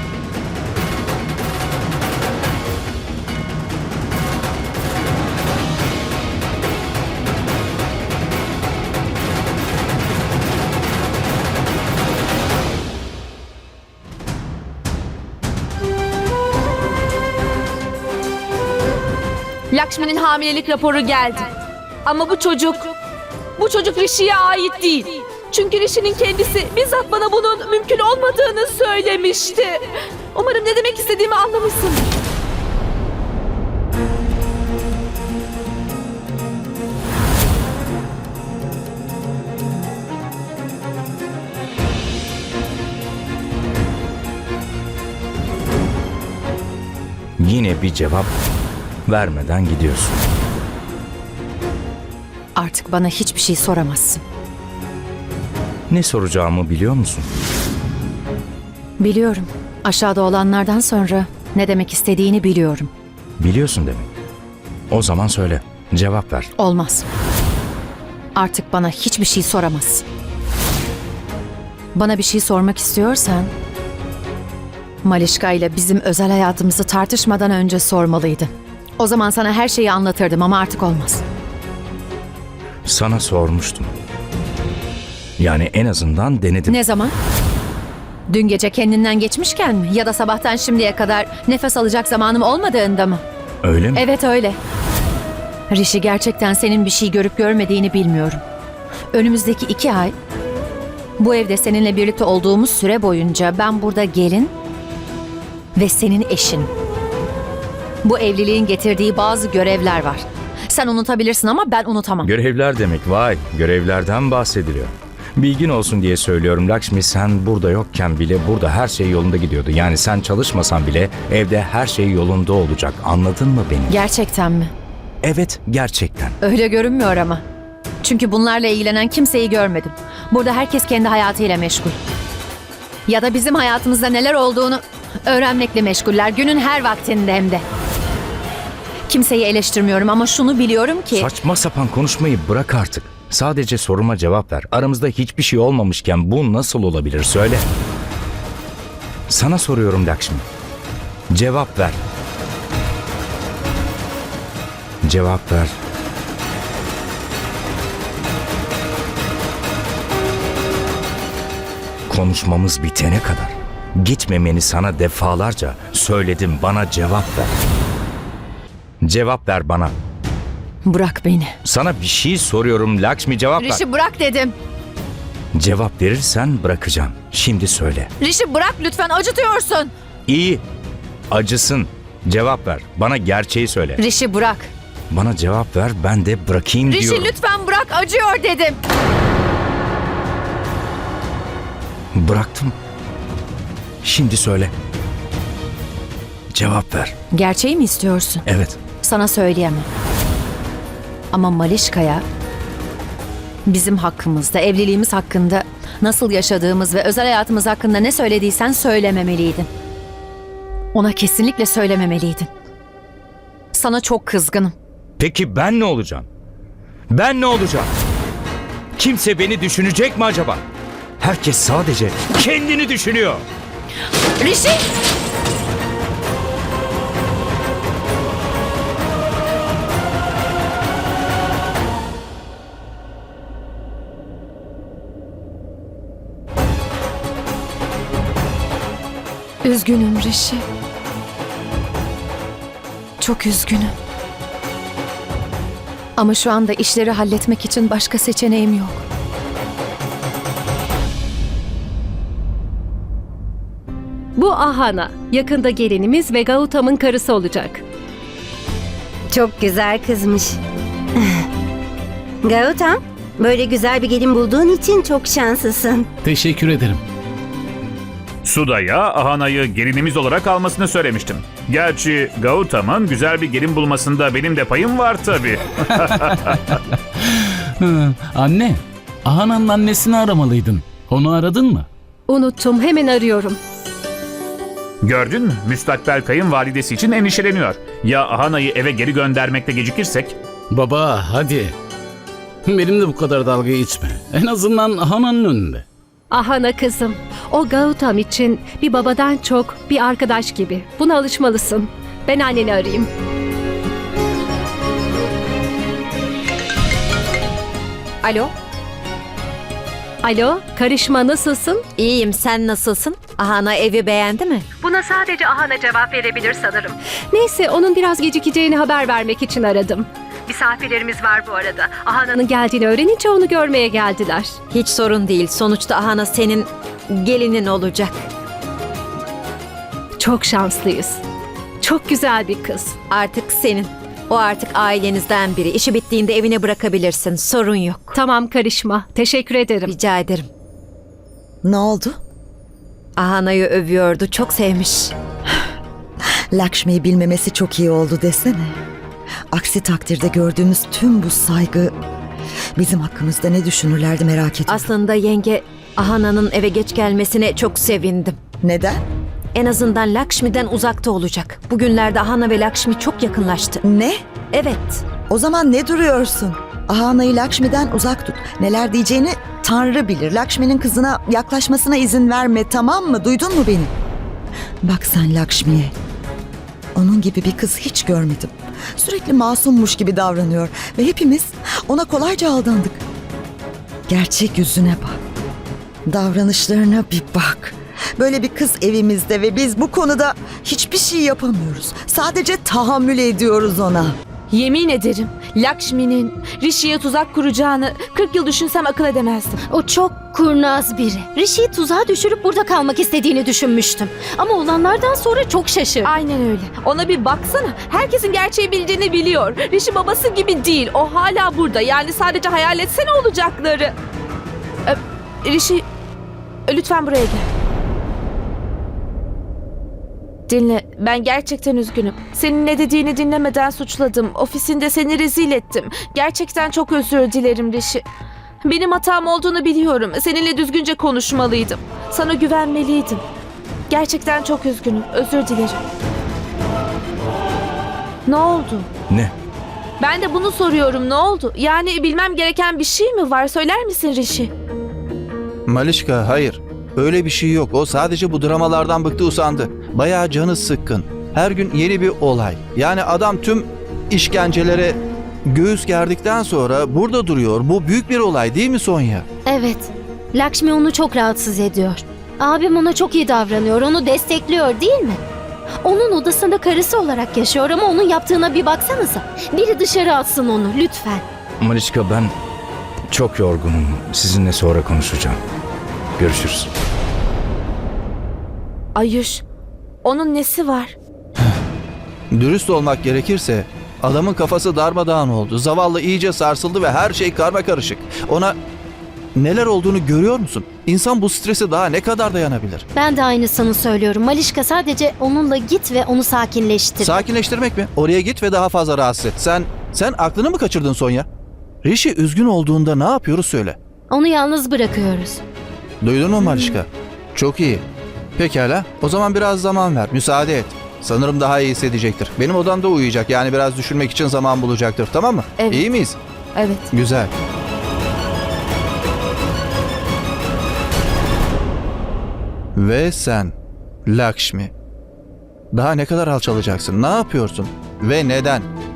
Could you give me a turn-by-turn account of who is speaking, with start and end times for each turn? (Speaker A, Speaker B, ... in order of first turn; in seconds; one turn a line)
Speaker A: 19.7-21.5
Speaker A: 22.1-22.9
Speaker A: 23.6-29.8
Speaker A: 30.3-32.0
Speaker B: 47.4-48.3
Speaker B: 49.1-50.3
Speaker C: 52.5-54.2
Speaker B: 55.9-57.3
Speaker C: 59.0-62.9
Speaker B: 63.4-64.1
Speaker B: 64.9-66.5
Speaker C: 66.6-67.0
Speaker C: 68.3-70.0
Speaker C: 71.9-73.5
Speaker C: 75.0-81.2
Speaker B: 82.8-83.9
Speaker B: 85.4-86.8
Speaker C: 86.7-87.1
Speaker C: 88.3-93.2
Speaker B: 93.6-94.0
Speaker C: 93.9-94.6
Speaker C: 95.7-98.4
Speaker C: 99.1-100.1
Speaker C: 101.2-104.5
Speaker C: 105.8-106.7
Speaker C: 108.0-112.3
Speaker B: 112.2-124.0
Speaker C: 123.9-124.7
Speaker B: 125.2-126.3
Speaker C: 126.4-127.4
Speaker C: 128.0-132.0
Speaker C: 133.1-137.6
Speaker C: 139.1-141.3
Speaker B: 141.1-147.6
Speaker B: 149.3-150.4
Speaker B: 151.3-152.0
Speaker B: 155.0-155.8
Speaker B: 162.1-167.6
Speaker B: 169.0-169.9
Speaker C: 170.8-171.6
Speaker B: 171.6-173.8
Speaker C: 173.6-174.5
Speaker B: 175.5-178.1
Speaker C: 178.2-179.9
Speaker B: 180.3-180.6
Speaker B: 181.3-184.0
Speaker C: 184.0-184.7
Speaker B: 185.1-187.3
Speaker C: 186.9-188.8
Speaker B: 192.1-192.7
Speaker B: 194.0-194.7
Speaker B: 196.5-197.1
Speaker C: 197.3-198.4
Speaker B: 198.4-198.8
Speaker C: 199.0-199.9
Speaker C: 201.3-202.2
Speaker C: 203.7-209.7
Speaker C: 210.9-212.5
Speaker C: 213.7-214.7
Speaker B: 215.2-216.3
Speaker B: 217.1-217.9
Speaker B: 219.0-220.6
Speaker B: 221.2-223.4
Speaker C: 224.4-224.9
Speaker C: 239.6-240.6
Speaker C: 243.2-243.9
Speaker C: 246.2-249.0
Speaker D: 254.3-257.8
Speaker E: 259.4-260.5
Speaker E: 262.4-266.0
Speaker F: 266.2-267.0
Speaker G: 268.4-275.6
Speaker F: 277.8-281.9
Speaker D: 282.3-283.6
Speaker G: 285.0-290.3
Speaker F: 290.7-291.7
Speaker F: 292.6-295.8
Speaker D: 296.3-303.1
Speaker D: 310.2-311.8
Speaker H: 312.0-314.7
Speaker D: 314.8-324.6
Speaker H: 324.7-328.3
Speaker D: 330.2-331.2
Speaker D: 331.8-332.9
Speaker H: 333.1-338.2
Speaker D: 338.1-339.9
Speaker H: 339.9-340.5
Speaker I: 341.6-342.2
Speaker H: 343.2-345.1
Speaker I: 346.5-348.8
Speaker I: 349.5-351.9
Speaker I: 352.8-354.9
Speaker H: 354.7-358.4
Speaker I: 358.6-359.0
Speaker H: 359.5-363.8
Speaker I: 363.8-364.2
Speaker H: 364.5-365.0
Speaker I: 365.3-373.9
Speaker I: 374.8-375.9
Speaker I: 376.9-383.0
Speaker I: 384.1-385.2
Speaker I: 386.1-394.1
Speaker A: 394.5-399.6
Speaker J: 399.7-406.1
Speaker A: 406.0-413.9
Speaker A: 414.9-415.8
Speaker A: 416.7-417.4
Speaker A: 420.5-428.0
Speaker A: 428.6-433.2
Speaker A: 433.9-435.8
Speaker A: 438.3-438.9
Speaker A: 440.0-444.5
Speaker K: 445.7-459.2
Speaker J: 459.4-465.2
Speaker J: 465.8-471.2
Speaker B: 471.6-472.3
Speaker B: 473.1-475.4
Speaker B: 476.2-476.7
Speaker A: 478.9-479.4
Speaker A: 480.0-480.9
Speaker K: 482.3-488.6
Speaker K: 489.3-492.9
Speaker J: 492.9-497.3
Speaker K: 497.0-501.3
Speaker K: 501.8-503.8
Speaker J: 504.1-505.4
Speaker K: 506.0-507.8
Speaker A: 506.4-506.8
Speaker K: 508.4-516.2
Speaker A: 515.6-515.9
Speaker A: 516.5-516.9
Speaker K: 516.9-517.3
Speaker K: 522.8-523.5
Speaker K: 524.0-524.7
Speaker K: 525.7-528.7